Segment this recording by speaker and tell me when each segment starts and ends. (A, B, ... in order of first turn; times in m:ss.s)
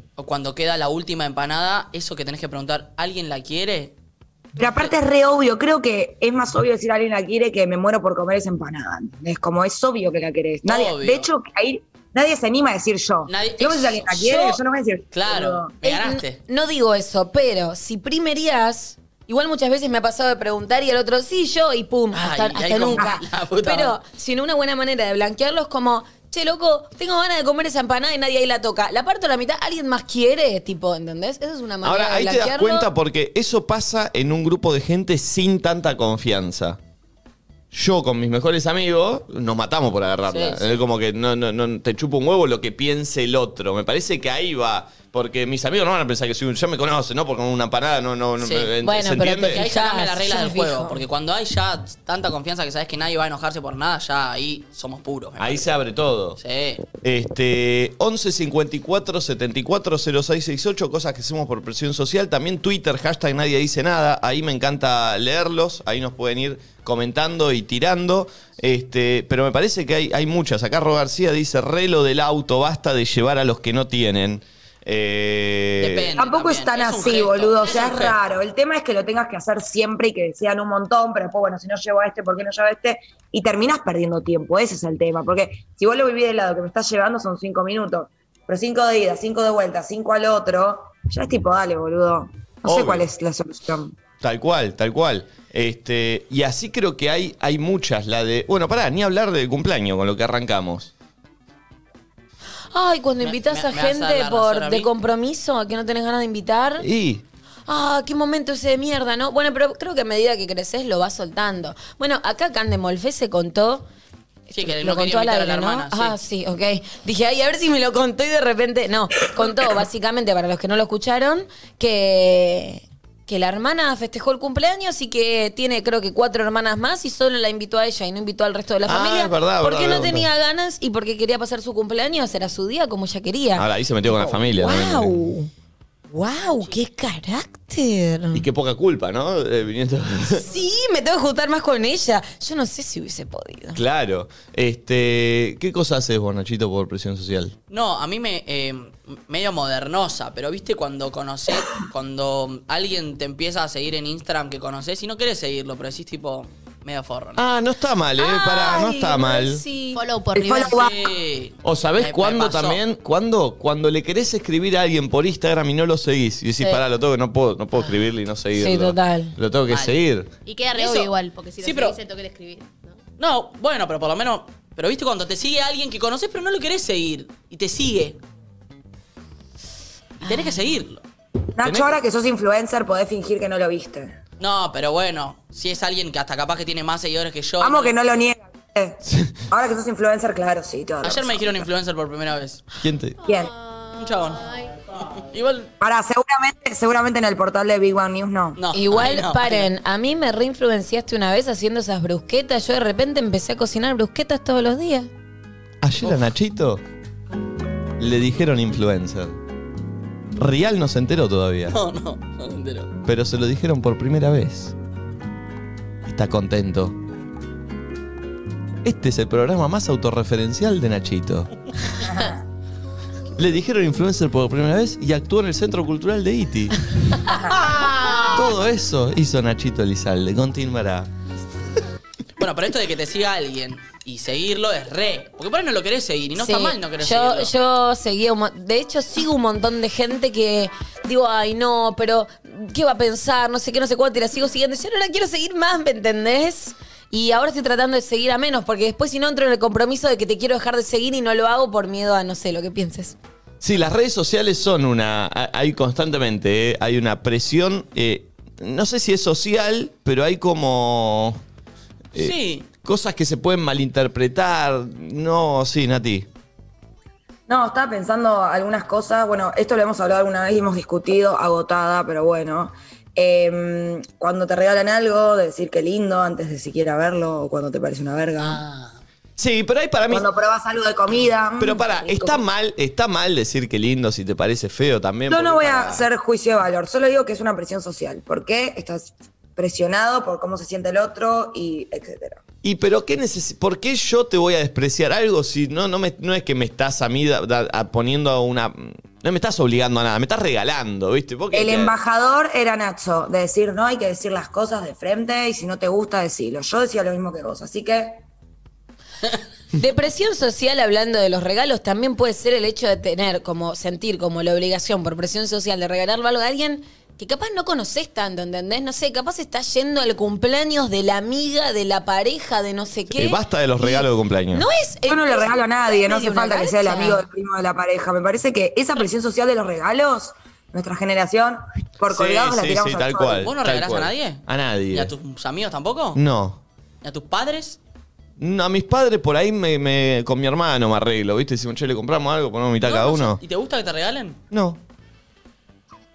0:00.2-0:03.9 A
0:04.6-0:15.7 B
0:10.6-0:11.3 A
0:13.3-0:14.6 A
0:15.1-0:16.4 A
0:15.8-0:32.9 C
0:22.1-0:24.0 A
0:31.8-0:36.8 D
0:37.7-0:49.6 D
0:40.3-0:40.8 A
0:48.4-0:48.7 A
0:48.8-0:51.0 C
0:49.4-0:55.7 A
0:55.4-0:56.4 D
0:56.4-0:56.8 A
0:57.0-1:16.1 D
1:15.8-1:18.2 A
1:16.2-1:34.0 B
1:32.6-1:33.1 D
1:34.2-1:40.9 D
1:42.7-1:46.8 C
1:43.2-1:44.9 A
1:46.8-1:47.2 D
1:47.6-1:53.8 C
1:54.5-2:15.5 C
1:54.5-1:56.1 A
2:08.8-2:10.3 D
2:13.6-2:15.1 D
2:16.1-2:18.4 C
2:18.3-2:20.4 D
2:20.3-2:23.8 C
2:23.7-2:27.5 D
2:27.7-2:37.4 A
2:37.4-2:39.6 D
2:38.2-2:40.0 C
2:39.9-2:40.8 E
2:40.3-2:40.9 B
2:40.6-2:42.8 A
2:41.6-2:50.3 D
2:48.5-2:49.3 C
2:49.7-2:50.0 A
2:50.4-2:53.0 E
2:50.7-2:52.0 A
2:53.2-2:58.2 A
3:00.2-3:01.0 A
3:00.2-3:00.5 C
3:01.6-3:04.2 B
3:01.6-3:02.0 D
3:04.4-3:07.9 A
3:07.6-3:11.5 B
3:09.0-3:09.4 D
3:11.0-3:12.6 A
3:12.8-3:13.2 D
3:13.2-3:13.5 B
3:13.3-3:14.0 E
3:14.0-3:14.4 A
3:15.0-3:15.7 A
3:15.8-3:18.6 B
3:18.6-3:19.7 A
3:18.7-3:25.1 C
3:25.8-3:26.8 D
3:28.0-3:29.3 D
3:30.4-3:31.8 D
3:31.7-3:32.9 A
3:33.0-3:34.7 D
3:36.0-3:37.0 D
3:38.8-3:41.5 D
3:42.0-3:42.4 B
3:43.4-3:47.2 D
3:48.3-3:51.1 D
3:52.4-3:57.5 A
3:56.4-4:13.2 C
4:13.6-4:21.4 D
4:22.1-4:26.3 D
4:22.2-4:22.6 A
4:27.5-4:38.6 B
4:38.4-4:38.9 A
4:39.4-4:40.2 D
4:40.1-4:42.4 B
4:41.6-4:46.1 D
4:45.3-4:52.4 B
4:52.6-5:02.0 D
5:01.5-5:08.2 B
5:09.8-5:27.2 C
5:23.1-5:24.6 D
5:25.1-5:33.5 B
5:32.1-5:35.1 D
5:33.4-5:36.2 A
5:36.1-5:36.6 D
5:37.0-5:37.8 A
5:38.4-5:43.4 D
5:42.8-5:44.4 A
5:44.5-5:44.8 D